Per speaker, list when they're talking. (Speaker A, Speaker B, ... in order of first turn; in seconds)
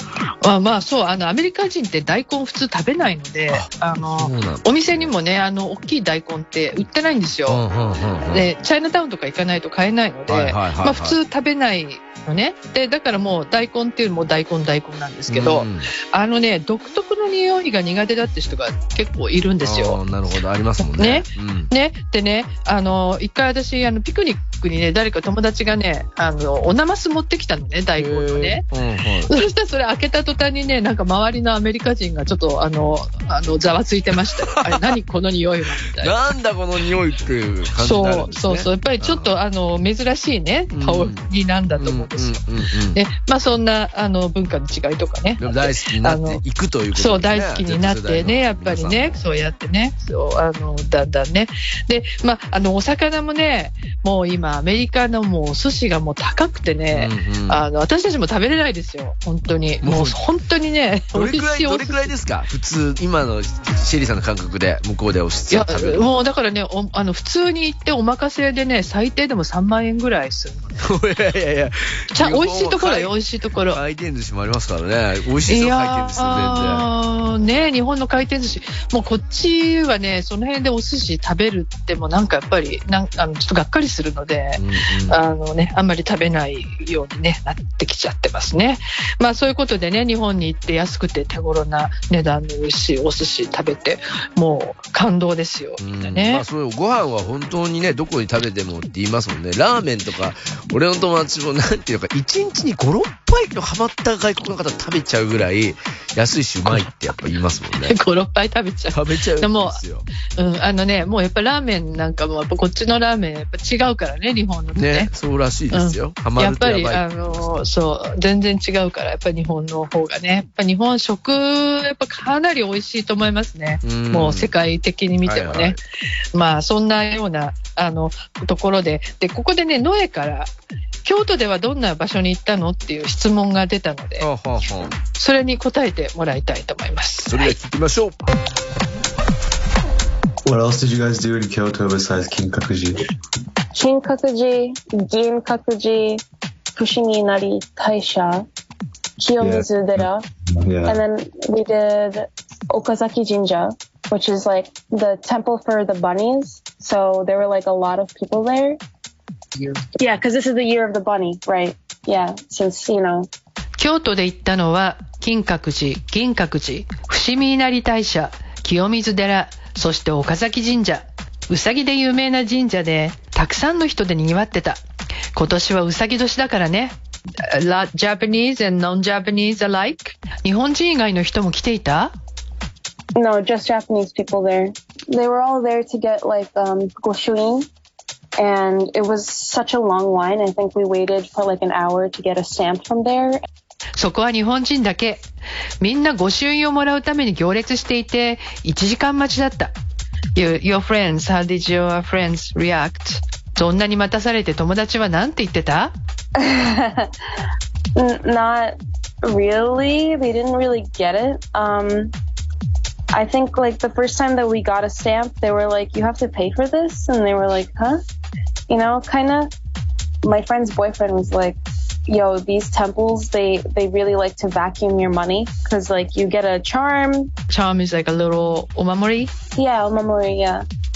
Speaker A: 0.4-7.6, 8.2-20.0, 20.8-28.6, 29.3-36.2, 37.8-42.4, 42.9-46.4, 46.9-62.1, 65.5-70.9, 72.1-73.8, 75.5-96.4, 107.8-109.8, 110.3-115.1, 115.7-125.8, 126.3-130.5, 131.0-134.3, 135.1-137.5, 163.8-174.8, 175.3-182.1, 193.9-195.2, 195.8-199.7, 200.3-205.9, 227.5-229.3
Speaker B: 3.5-5.1, 7.5-8.5, 10.3-11.2, 15.3-15.9, 19.6-21.7, 28.0-29.3, 34.4-34.9, 36.0-39.3, 40.7-41.2, 41.8-43.0, 45.4-49.2, 56.9-57.6, 59.8-60.2, 61.1-66.2, 70.8-73.1, 73.7-76.9, 84.6-85.2, 95.8-108.0, 108.9-110.1, 114.8-117.5, 123.8-124.5, 125.2-125.8, 134.2-134.9, 137.2-138.2
Speaker C: 140.4-143.1, 149.4-151.0
Speaker D: 143.7-146.2, 146.8-148.5, 149.2-150.3, 150.9-158.8, 160.0-163.3, 183.2-187.7, 188.4-193.4, 206.4-207.1, 208.0-212.1, 213.1-218.0, 218.7-219.5, 220.2-227.3, 229.6-230.6